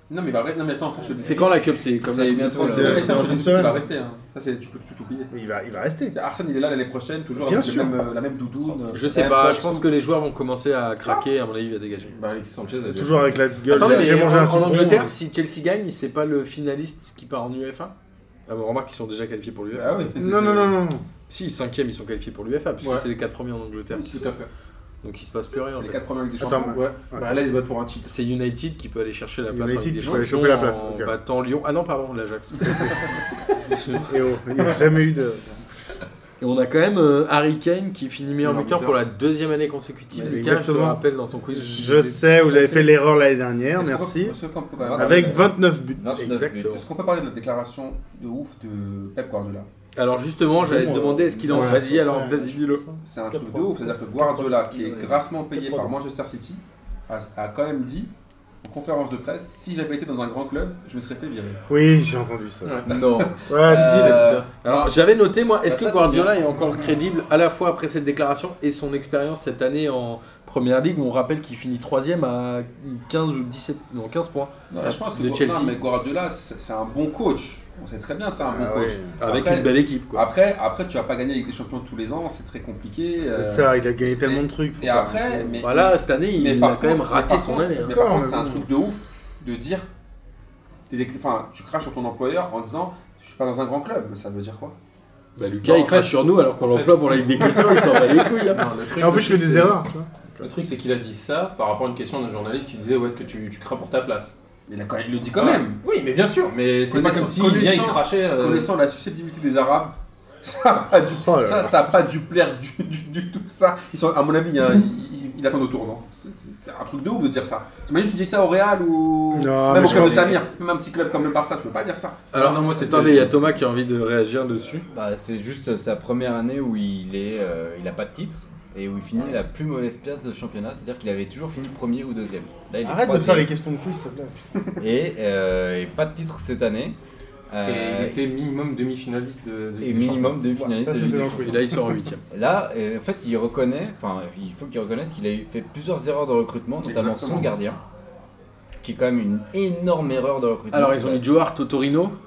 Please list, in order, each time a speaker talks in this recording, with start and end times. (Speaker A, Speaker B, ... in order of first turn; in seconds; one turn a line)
Speaker A: 0.1-1.7
Speaker B: 1.2-3.4
Speaker C: 2.0-3.6
Speaker D: 2.6-3.8
Speaker A: 2.6-5.3
Speaker D: 5.3-6.1
Speaker A: 6.1-9.9
Speaker D: 7.3-8.0
Speaker B: 8.9-12.1
Speaker E: 12.1-14.0
Speaker D: 12.9-15.1
Speaker B: 13.7-17.9
Speaker B: 18.5-20.0
Speaker A: 19.7-20.8
Speaker D: 20.2-21.0
Speaker B: 21.3-24.2
Speaker E: 22.8-23.1
Speaker A: 23.9-24.3
Speaker E: 24.1-24.5
Speaker B: 25.0-26.0
Speaker A: 25.7-26.8
Speaker D: 26.4-27.4
Speaker E: 26.6-28.1
Speaker B: 28.1-33.1
Speaker D: 29.4-31.1
Speaker D: 34.0-35.6
Speaker B: 36.4-42.8
Speaker E: 38.4-39.0
Speaker A: 40.1-40.5
Speaker D: 40.3-41.0
Speaker D: 41.5-44.4
Speaker A: 43.8-45.5
Speaker C: 44.8-46.8
Speaker D: 44.9-46.1
Speaker B: 46.1-46.8
Speaker A: 46.7-49.7
Speaker B: 50.0-52.8
Speaker D: 50.6-54.7
Speaker E: 51.5-51.8
Speaker A: 53.0-58.1
Speaker D: 55.5-55.9
Speaker A: 58.6-61.6
Speaker D: 61.7-62.8
Speaker E: 62.6-62.9
Speaker C: 62.9-64.5
Speaker A: 62.9-63.3
Speaker D: 63.5-64.2
Speaker B: 63.7-75.8
Speaker C: 65.7-66.4
Speaker A: 74.7-89.9
Speaker D: 78.4-79.2
Speaker B: 79.2-80.2
Speaker D: 83.2-85.6
Speaker B: 85.6-88.0
Speaker D: 87.9-88.7
Speaker A: 90.9-94.8
Speaker B: 95.4-98.6
Speaker E: 95.6-99.8
Speaker D: 98.9-100.5
Speaker E: 100.4-104.3
Speaker A: 104.7-105.8
Speaker E: 105.3-108.7
Speaker A: 106.9-122.2
Speaker D: 111.1-111.8
Speaker D: 119.3-120.4
Speaker C: 119.8-120.4
Speaker B: 122.3-124.8
Speaker E: 122.3-123.4
Speaker C: 124.9-133.5
Speaker D: 132.8-134.3
Speaker C: 134.8-136.9
Speaker C: 137.5-138.2
Speaker E: 137.7-140.5
Speaker C: 139.8-141.6
Speaker D: 140.5-141.8
Speaker B: 141.4-142.2
Speaker C: 142.3-147.8
Speaker A: 146.8-147.5
Speaker C: 148.8-151.2
Speaker B: 150.7-152.1